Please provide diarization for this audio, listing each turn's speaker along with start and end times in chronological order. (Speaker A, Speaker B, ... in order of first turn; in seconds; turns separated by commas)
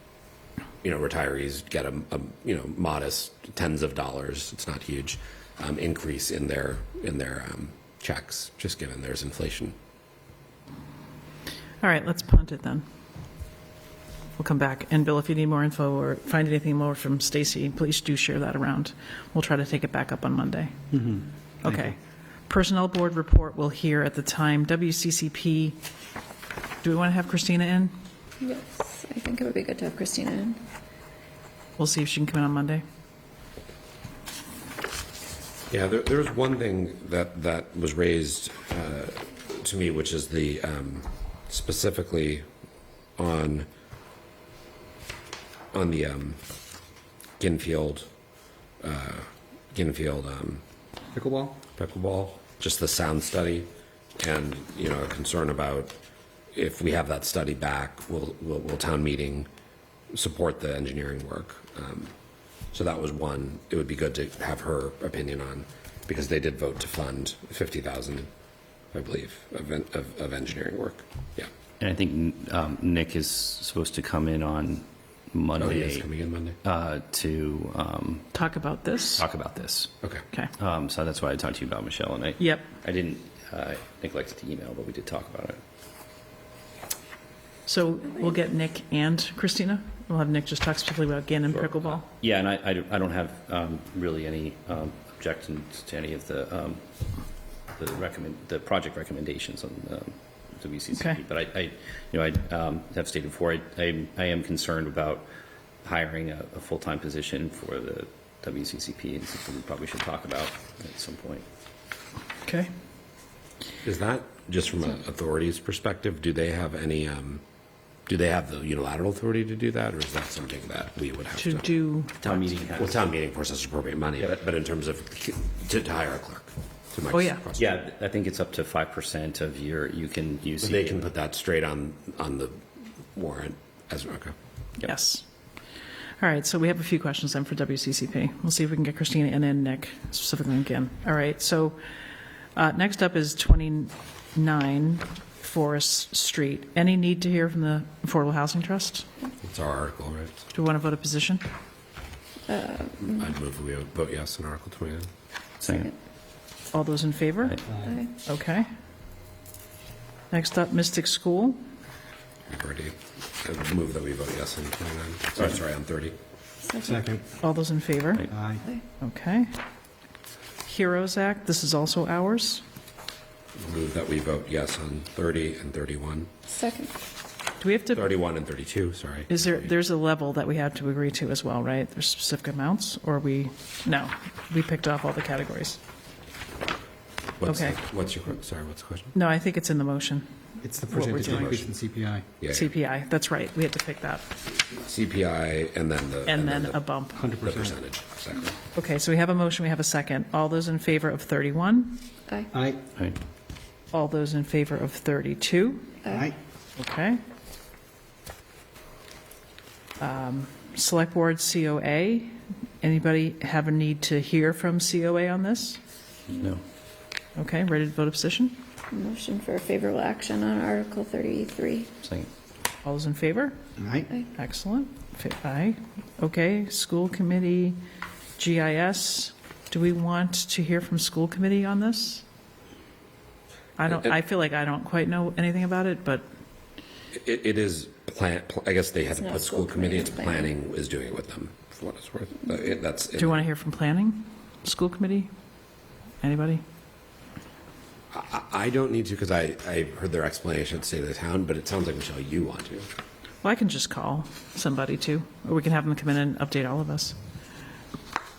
Speaker A: 0.8-9.7, Speaker B: 11.8-12.8, Speaker B: 14.4-20.8, Speaker C: 20.9-21.9, Speaker B: 21.6-22.0, Speaker B: 22.5-25.8, Speaker B: 26.8-27.9, Speaker D: 28.4-30.6, Speaker B: 31.8-32.8, Speaker A: 35.7-42.5, Speaker A: 43.2-43.7, Speaker A: 45.7-46.4, Speaker A: 47.4-48.1, Speaker A: 48.8-50.6, Speaker C: 51.1-51.6, Speaker A: 51.7-56.0, Speaker A: 56.5-59.5, Speaker A: 60.1-62.1, Speaker A: 62.7-68.3, Speaker A: 68.9-71.5, Speaker E: 71.8-76.1, Speaker A: 75.6-76.6, Speaker E: 76.6-78.3, Speaker B: 78.3-79.3, Speaker E: 79.2-79.9, Speaker E: 80.6-85.6, Speaker B: 82.4-82.7, Speaker B: 87.7-92.1, Speaker E: 91.5-96.8, Speaker E: 97.7-105.3, Speaker B: 100.9-101.2, Speaker E: 105.8-111.4, Speaker B: 112.4-112.7, Speaker A: 113.8-117.4, Speaker A: 118.1-121.7, Speaker B: 121.4-122.6, Speaker E: 122.2-123.0, Speaker A: 122.8-127.7, Speaker B: 127.1-127.4, Speaker E: 127.5-131.1, Speaker A: 130.6-132.6, Speaker A: 133.1-134.3, Speaker B: 134.8-135.2, Speaker B: 136.2-141.8, Speaker B: 142.6-149.1, Speaker A: 149.4-150.5, Speaker B: 150.5-151.4, Speaker D: 152.5-153.2, Speaker A: 153.1-155.1, Speaker E: 155.6-155.9, Speaker B: 156.7-157.6, Speaker C: 157.7-158.0, Speaker D: 157.8-158.1, Speaker B: 158.2-158.7, Speaker B: 160.3-161.6, Speaker A: 162.5-166.2, Speaker D: 166.6-167.0, Speaker C: 166.8-167.2, Speaker B: 167.4-168.3, Speaker C: 168.3-168.7, Speaker B: 169.0-169.5, Speaker B: 170.6-172.6, Speaker A: 173.6-176.3, Speaker D: 176.5-176.9, Speaker B: 177.6-178.1, Speaker A: 177.9-179.7, Speaker B: 179.3-185.8, Speaker A: 187.4-189.1, Speaker B: 187.4-187.8, Speaker B: 189.1-190.3, Speaker C: 190.6-192.3, Speaker B: 190.9-191.4, Speaker A: 191.2-191.6, Speaker A: 192.4-192.7, Speaker B: 192.5-194.3, Speaker A: 194.8-196.8, Speaker B: 196.2-197.2, Speaker C: 197.1-197.8, Speaker A: 197.4-198.6, Speaker B: 198.7-202.0, Speaker C: 202.5-202.8, Speaker B: 203.9-205.9, Speaker D: 206.0-206.3, Speaker C: 206.1-206.3, Speaker B: 206.8-207.2, Speaker B: 210.0-215.8, Speaker E: 216.3-216.6, Speaker B: 217.3-218.6, Speaker D: 218.9-221.9, Speaker E: 222.0-222.3, Speaker B: 222.8-223.6, Speaker C: 223.8-224.1, Speaker B: 224.3-227.8, Speaker B: 228.4-232.2, Speaker B: 233.8-236.2, Speaker A: 233.9-234.1, Speaker A: 237.1-243.4, Speaker D: 239.2-240.5, Speaker B: 243.2-245.3, Speaker B: 246.2-246.6, Speaker A: 248.1-252.9, Speaker B: 253.4-257.1